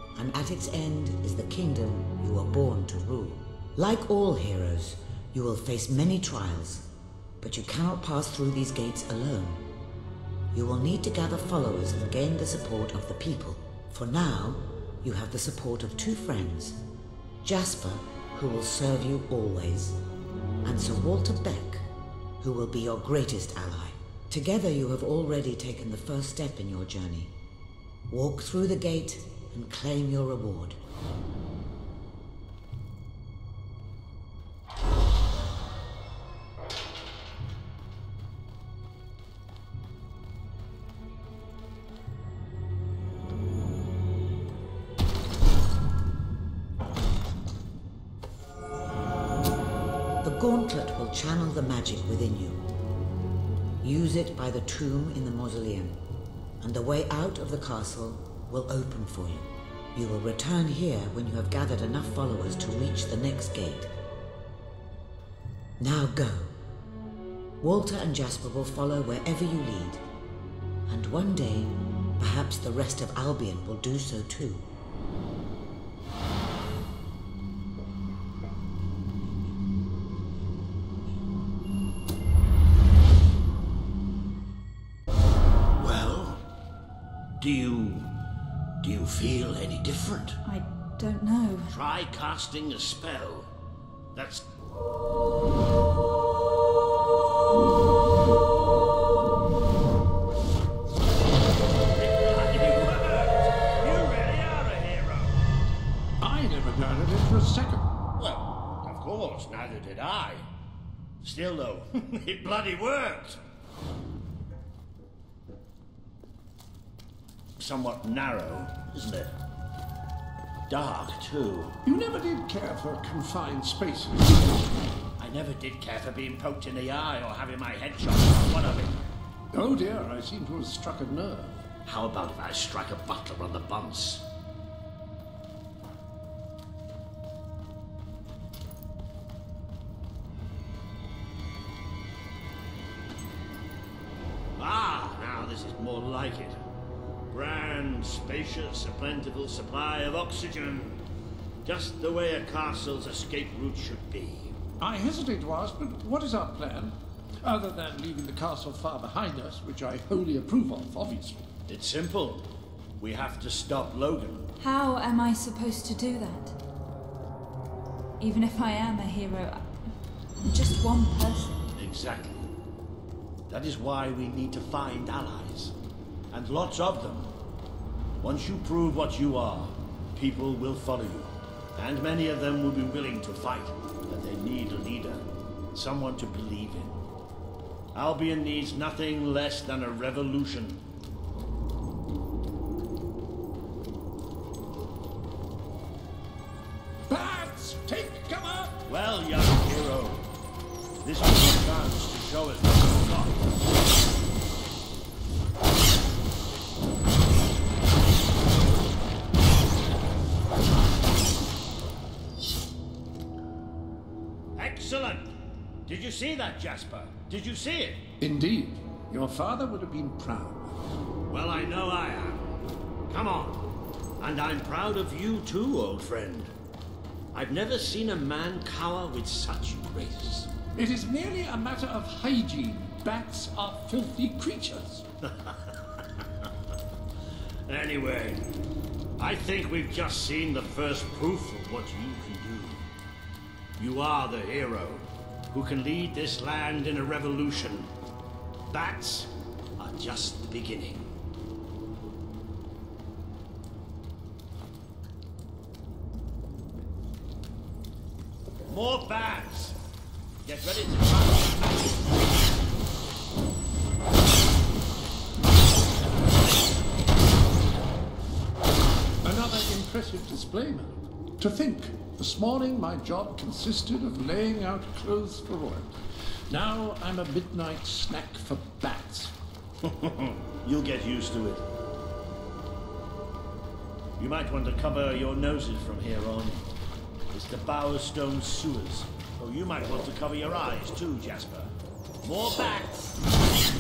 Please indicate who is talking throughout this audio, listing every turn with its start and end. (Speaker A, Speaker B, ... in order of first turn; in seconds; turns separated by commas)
Speaker A: 0.2-6.8, Speaker A: 7.4-9.6, Speaker A: 10.5-16.8, Speaker A: 17.4-20.0, Speaker A: 20.6-21.8, Speaker A: 22.4-27.3, Speaker A: 28.1-30.8, Speaker A: 50.2-52.6, Speaker A: 53.8-56.0, Speaker A: 56.6-63.9, Speaker A: 65.8-66.5, Speaker A: 67.6-70.0, Speaker A: 70.9-74.7, Speaker B: 85.8-86.4, Speaker B: 87.4-88.2, Speaker B: 88.8-90.4, Speaker C: 90.4-91.8, Speaker B: 91.7-93.5, Speaker B: 94.1-94.5, Speaker B: 101.9-105.4, Speaker D: 106.2-107.8, Speaker B: 108.2-110.4, Speaker B: 111.2-113.4, Speaker B: 117.6-119.4, Speaker B: 120.7-121.8, Speaker D: 121.8-124.8, Speaker B: 125.2-129.0, Speaker D: 129.5-131.6, Speaker B: 131.8-134.2, Speaker B: 144.6-146.6, Speaker B: 147.3-151.0, Speaker B: 151.6-154.5, Speaker D: 154.8-161.4, Speaker B: 161.7-162.5, Speaker B: 163.0-164.5, Speaker C: 164.6-166.6, Speaker C: 168.2-169.7, Speaker C: 170.4-171.6, Speaker B: 171.8-172.5, Speaker B: 173.5-175.7, Speaker B: 176.3-177.3, Speaker B: 178.2-187.0, Speaker B: 187.9-190.8, Speaker D: 197.1-198.8, Speaker B: 198.9-200.2, Speaker B: 201.0-203.5, Speaker B: 214.6-215.3, Speaker B: 215.9-218.0, Speaker D: 218.2-220.8, Speaker B: 221.3-222.5, Speaker B: 223.1-223.6, Speaker B: 224.2-226.5, Speaker B: 227.3-230.5, Speaker D: 230.8-235.0, Speaker B: 235.2-236.2, Speaker B: 237.7-238.4, Speaker B: 239.2-242.9, Speaker B: 243.8-247.9, Speaker B: 248.7-251.1, Speaker B: 258.7-259.8, Speaker B: 260.4-262.0, Speaker D: 269.2-276.0, Speaker D: 276.5-279.3, Speaker B: 279.9-281.6, Speaker B: 284.2-286.7, Speaker B: 287.3-293.1